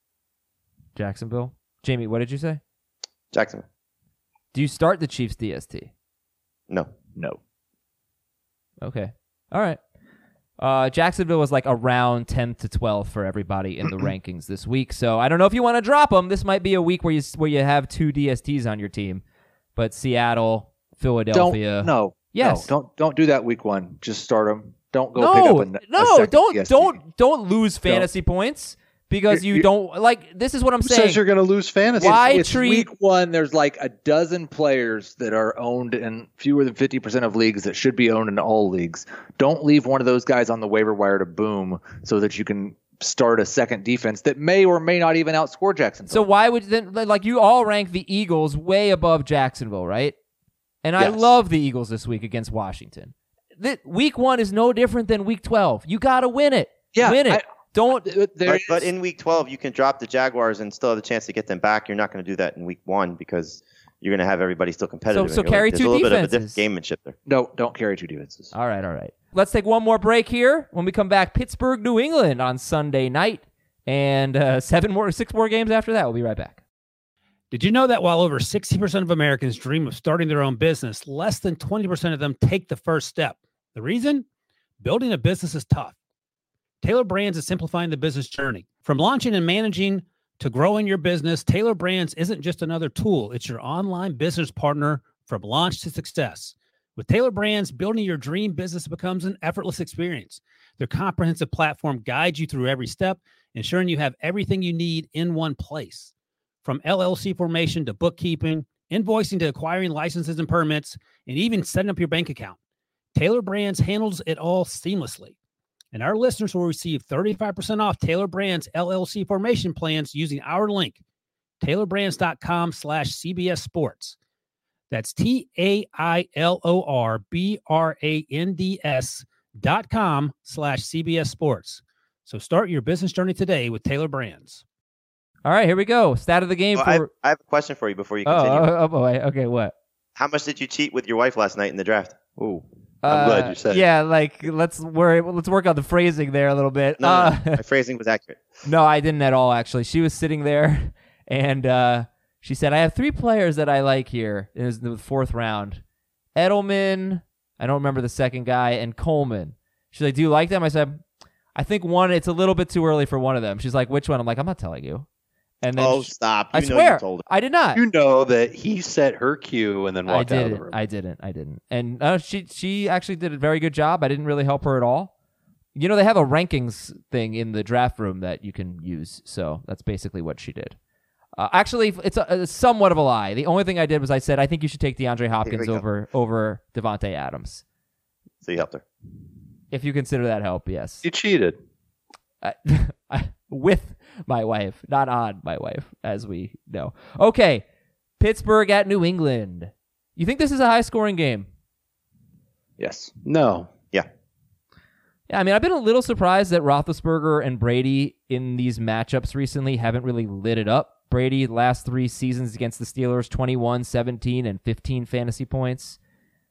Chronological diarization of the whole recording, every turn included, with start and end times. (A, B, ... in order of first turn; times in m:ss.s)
0:01.0-0:02.6 A
0:03.3-0:03.6 B
0:04.5-0:05.9 A
0:08.8-0:09.8 A
0:10.6-0:19.2 A
0:19.8-0:22.7 A
0:21.3-0:27.0 C
0:25.2-0:31.2 A
0:29.3-0:29.6 C
0:30.8-0:32.5 D
0:32.0-0:46.3 C
0:32.0-0:32.9 A
0:46.1-0:50.1 A
0:50.8-0:58.1 A
0:56.9-0:57.4 C
0:58.0-0:58.9 C
0:58.5-1:07.2 B
1:05.1-1:06.6 A
1:07.3-1:08.5 C
1:08.5-1:16.6 A
1:17.5-1:24.3 E
1:24.8-1:26.0 E
1:26.8-1:46.1 E
1:46.6-1:52.6 E
1:53.2-1:55.4 E
1:55.9-2:01.0 E
2:01.6-2:04.2 E
2:04.9-2:14.6 E
2:15.4-2:17.1 A
2:16.8-2:18.7 B
2:18.2-2:19.7 A
2:20.2-2:22.4 B
2:23.0-2:27.6 A
2:23.0-2:23.8 D
2:27.0-2:28.4 B
2:28.6-2:35.8 A
2:36.4-2:41.0 A
2:41.5-2:45.1 A
2:45.6-2:47.8 A
2:45.8-2:47.3 B
2:47.8-2:50.8 D
2:50.1-2:55.1 A
2:55.8-3:00.8 A
3:01.4-3:07.6 A
3:05.4-3:05.8 B
3:08.4-3:08.8 B
3:09.7-3:11.0 A
3:11.0-3:11.6 D
3:12.4-3:17.6 A
3:18.2-3:21.5 A
3:22.8-3:23.1 C
3:23.2-3:23.7 D
3:25.3-3:36.0 A